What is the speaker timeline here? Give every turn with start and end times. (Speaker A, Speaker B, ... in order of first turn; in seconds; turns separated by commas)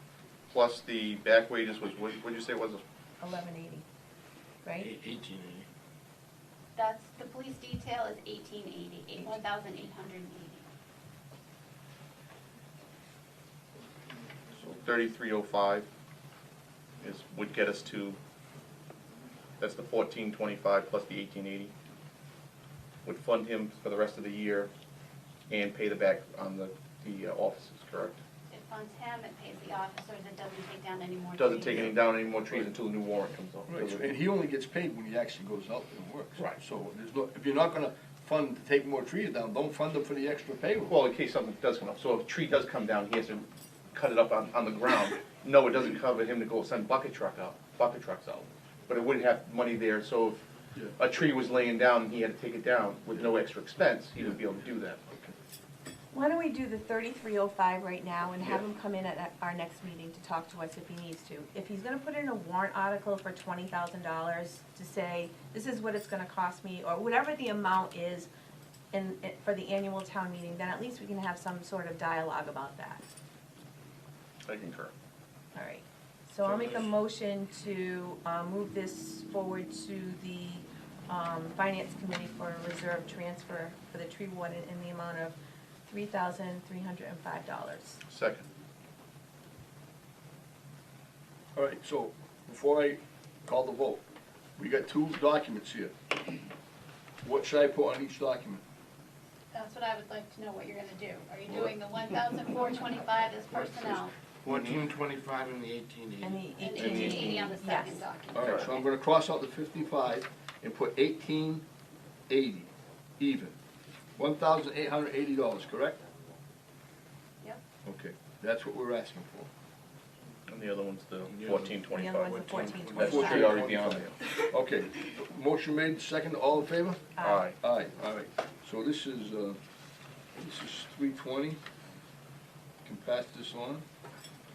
Speaker A: 0.5-2.8, Speaker B: 3.2-3.8, Speaker B: 4.6-4.9, Speaker C: 4.8-5.7, Speaker D: 6.8-10.6, Speaker B: 9.2-9.4, Speaker A: 14.5-15.9, Speaker A: 17.0-18.2, Speaker A: 19.6-21.7, Speaker A: 23.0-24.7, Speaker A: 25.5-28.2, Speaker D: 28.5-31.9, Speaker A: 31.4-34.1, Speaker E: 33.7-40.9, Speaker A: 40.9-50.4, Speaker A: 51.0-55.0, Speaker B: 56.1-68.3, Speaker B: 68.9-73.0, Speaker A: 74.5-74.9, Speaker B: 75.5-85.3, Speaker C: 76.5-76.9, Speaker B: 85.9-88.0, Speaker A: 88.1-88.4, Speaker E: 91.5-94.0, Speaker E: 94.6-95.9, Speaker E: 97.2-98.6, Speaker D: 99.5-104.1, Speaker C: 104.4-106.5, Speaker A: 104.5-104.8, Speaker B: 106.2-108.1, Speaker D: 106.6-108.8, Speaker A: 106.7-107.5, Speaker E: 108.3-111.6, Speaker A: 108.4-108.7, Speaker E: 112.3-113.5, Speaker E: 114.2-116.0, Speaker E: 117.8-119.5, Speaker A: 120.5-124.2, Speaker C: 121.3-123.1, Speaker B: 121.9-123.5, Speaker E: 122.9-127.0, Speaker B: 127.1-127.5, Speaker A: 127.2-127.5, Speaker E: 127.6-129.6, Speaker E: 130.4-131.6, Speaker E: 132.8-133.8